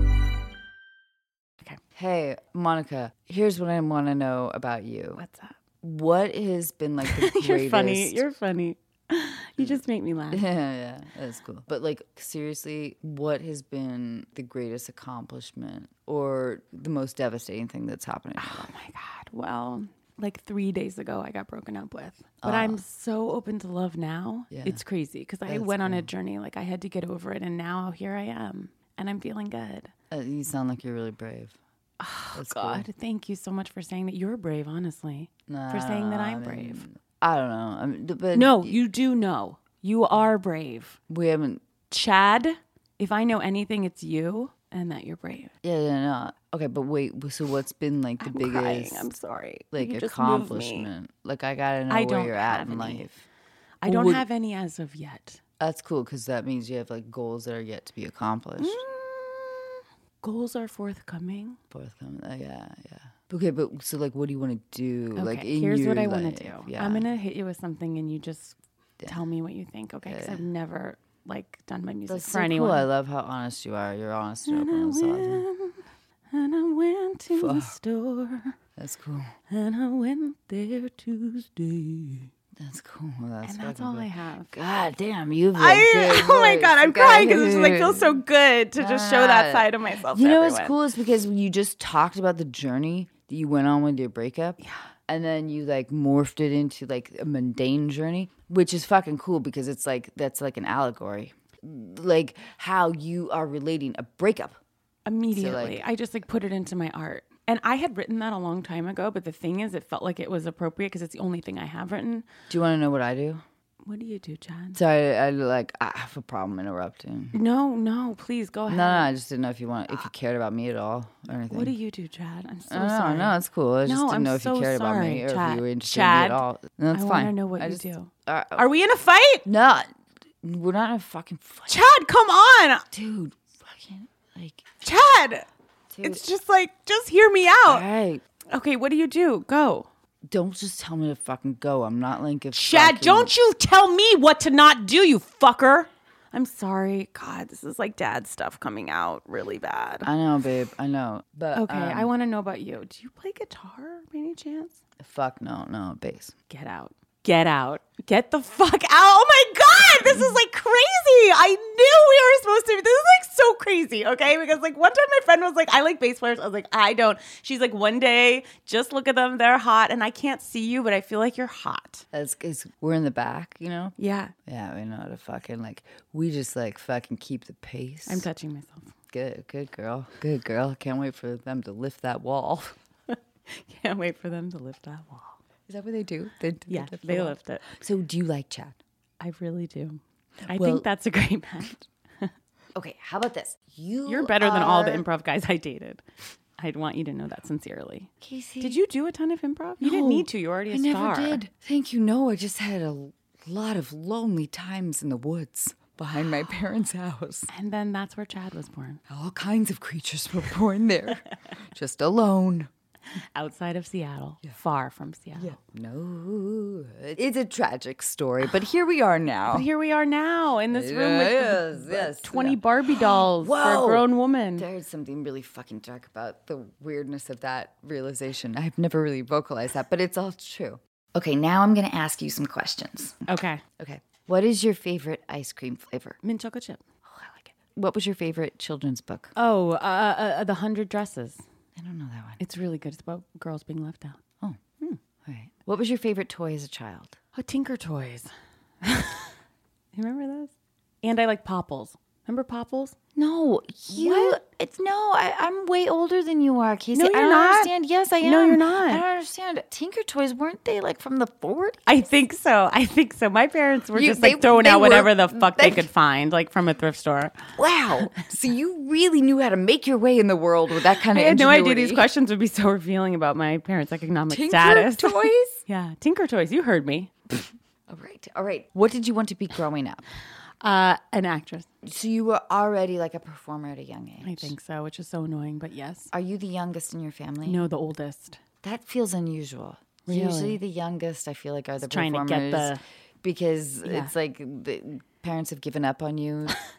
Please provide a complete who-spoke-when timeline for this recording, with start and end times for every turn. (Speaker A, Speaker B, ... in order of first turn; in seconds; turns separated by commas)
Speaker A: 1.9-5.2, Speaker B: 5.2-5.5, Speaker A: 5.8-8.2, Speaker B: 7.0-10.4, Speaker A: 10.3-18.7, Speaker B: 18.4-29.9, Speaker A: 22.4-22.8, Speaker A: 24.5-24.8, Speaker A: 25.5-26.1, Speaker A: 30.1-31.6, Speaker B: 32.0-36.8, Speaker A: 32.3-32.9, Speaker A: 35.5-38.7, Speaker B: 38.3-41.0, Speaker A: 41.1-41.6, Speaker B: 41.9-45.5, Speaker A: 45.6-49.1, Speaker B: 48.2-50.9, Speaker A: 49.7-53.2, Speaker B: 51.9-53.0, Speaker B: 53.8-55.4, Speaker A: 53.8-54.2, Speaker A: 55.6-58.8, Speaker B: 58.6-61.6, Speaker A: 61.7-67.0, Speaker B: 65.2-72.9, Speaker A: 70.0-70.4, Speaker A: 72.1-75.4, Speaker B: 74.5-75.8, Speaker B: 76.3-78.5, Speaker A: 77.3-77.7, Speaker A: 78.8-79.3, Speaker B: 79.5-82.3, Speaker A: 82.6-88.2, Speaker B: 83.4-84.5, Speaker B: 85.5-90.7, Speaker A: 88.8-104.6, Speaker B: 105.0-112.3, Speaker A: 105.3-105.8, Speaker A: 112.5-113.4, Speaker B: 113.8-114.8, Speaker A: 114.7-117.3, Speaker B: 117.3-119.1, Speaker A: 118.7-121.7, Speaker B: 121.5-126.4, Speaker A: 122.7-128.6, Speaker B: 126.9-129.4, Speaker A: 129.4-129.9, Speaker A: 130.4-131.8, Speaker B: 131.7-132.8, Speaker A: 132.9-134.6, Speaker B: 134.8-135.4, Speaker A: 135.9-136.2, Speaker B: 136.0-137.8, Speaker A: 137.7-138.2, Speaker B: 138.5-139.9, Speaker A: 140.3-143.3, Speaker B: 142.5-150.1, Speaker A: 150.0-152.1, Speaker B: 151.5-154.8, Speaker A: 155.0-156.3, Speaker B: 156.5-172.0, Speaker A: 172.1-173.9, Speaker B: 174.0-174.3, Speaker A: 174.4-178.2, Speaker B: 178.1-178.9, Speaker A: 179.1-182.7, Speaker B: 183.1-185.4, Speaker A: 185.7-188.8, Speaker B: 186.7-187.6, Speaker B: 189.2-192.3, Speaker A: 190.5-190.8, Speaker A: 192.7-195.0, Speaker B: 194.1-196.0, Speaker B: 196.6-201.4, Speaker A: 198.2-198.8, Speaker A: 199.8-207.5, Speaker B: 207.5-209.0, Speaker A: 209.1-212.7, Speaker B: 213.3-215.5, Speaker A: 215.3-219.7, Speaker B: 219.5-224.7, Speaker A: 220.7-233.2, Speaker B: 233.3-233.6, Speaker A: 233.8-236.2, Speaker B: 236.2-237.5, Speaker A: 237.8-239.3, Speaker B: 239.3-241.4, Speaker A: 241.8-242.4, Speaker B: 242.4-244.2, Speaker A: 245.2-247.2, Speaker B: 247.3-248.3, Speaker B: 248.8-249.3, Speaker B: 249.9-250.5, Speaker B: 251.0-252.9, Speaker A: 253.2-261.8, Speaker B: 253.9-254.4, Speaker B: 256.9-259.0, Speaker B: 261.9-267.4, Speaker A: 263.9-265.8, Speaker A: 267.6-272.1, Speaker B: 271.1-277.1, Speaker A: 274.3-275.6, Speaker A: 277.9-280.0, Speaker B: 280.6-281.7, Speaker A: 281.8-284.5, Speaker B: 284.2-286.1, Speaker A: 286.1-287.6, Speaker B: 287.4-288.4, Speaker A: 288.6-296.6, Speaker B: 290.1-290.6, Speaker B: 291.8-292.8, Speaker B: 293.8-294.1